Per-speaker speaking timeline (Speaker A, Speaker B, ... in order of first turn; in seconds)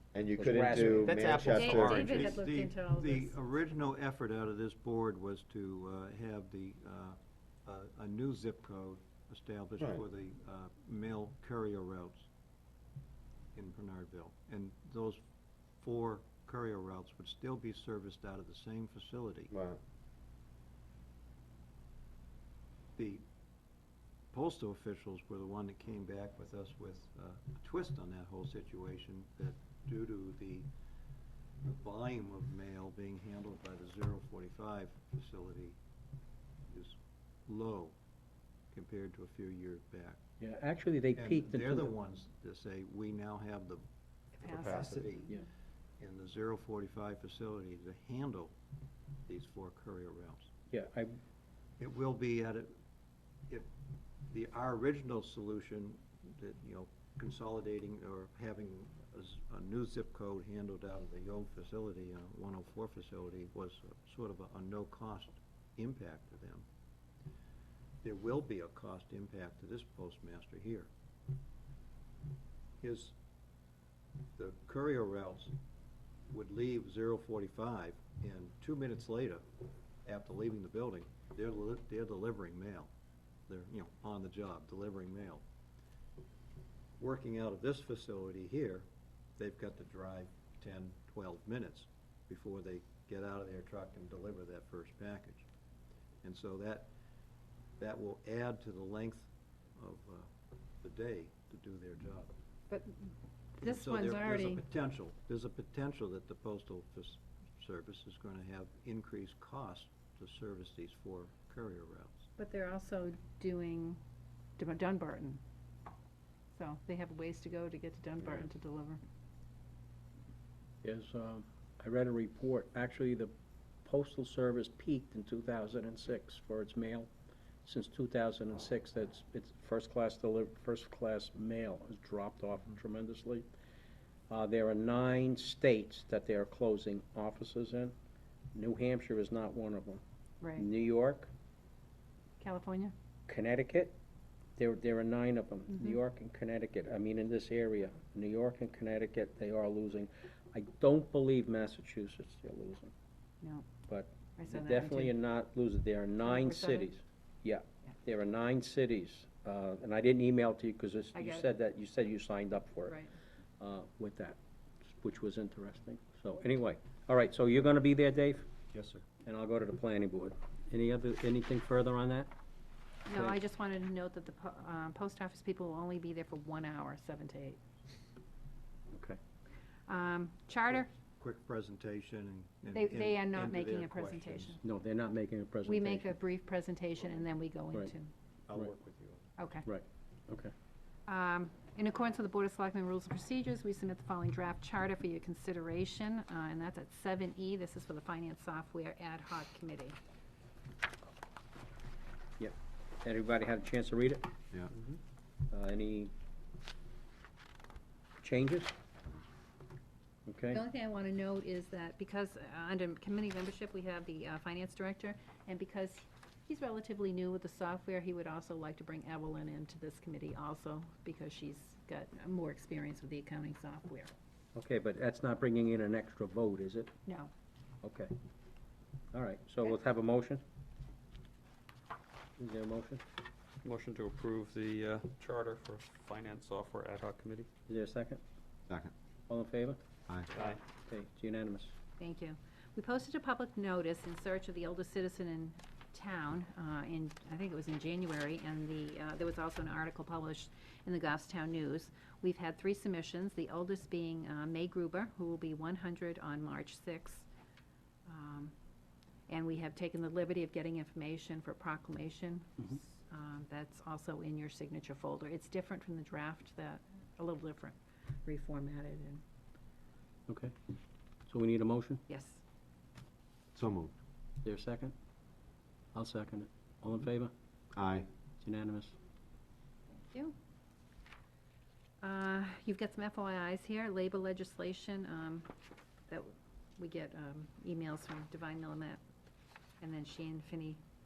Speaker A: 0.1-2.1, 19.5-19.8, 273.5-273.9, 277.7-278.1
Speaker B: 0.4-1.3, 40.4-41.9, 50.7-51.2, 120.8-123.3, 123.8-127.1, 127.6-133.5, 134.3-137.9, 138.5-140.0, 140.6-141.3, 143.3-143.9, 144.6-152.9, 153.9-163.0, 163.6-168.5, 169.2-172.3, 173.1-173.4, 178.9-179.2, 184.6-186.1, 189.7-190.5, 202.4-204.3, 205.5-206.1, 208.2-208.7, 210.3-210.6, 224.6-226.9, 227.8-228.1, 229.1-230.4, 232.4-233.0, 237.7-238.2, 239.3-239.8, 240.9-241.7, 270.3-270.6, 271.3-272.0, 274.4-274.9, 275.9-277.3, 278.4-278.9
Speaker C: 0.8-2.4, 233.6-237.5, 240.3-240.6
Speaker D: 1.4-3.4, 44.4-45.1, 102.7-104.6, 112.4-114.0, 114.6-115.4, 116.5-119.0, 142.4-142.9, 153.4-153.7, 154.4-155.1, 156.2-156.9, 161.2-161.5, 173.1-177.6, 179.9-180.9, 182.7-184.6, 185.7-188.1, 189.4-189.7, 191.1-200.0, 210.5-224.1, 227.1-227.3, 242.0-257.3, 258.1-258.5, 259.3-269.2, 272.1-272.4, 280.1-280.4, 282.0-285.5, 286.1-289.0, 289.8-290.8
Speaker E: 1.7-12.3, 13.6-15.2, 15.8-19.5, 23.0-23.2, 24.3-30.7, 31.6-35.8, 36.7-37.0, 37.5-38.0, 38.7-40.2, 41.1-43.8, 44.4-45.4, 46.0-48.5, 49.3-50.5, 51.8-52.7, 54.3-66.7, 68.0-70.9, 72.8-73.2, 74.4-75.6, 76.3-79.4, 80.0-82.9, 83.5-85.4, 87.0-95.5, 96.2-96.9, 97.8-100.3, 100.8-102.3, 103.6-112.3, 168.7-169.1, 181.1-184.6, 188.5-189.3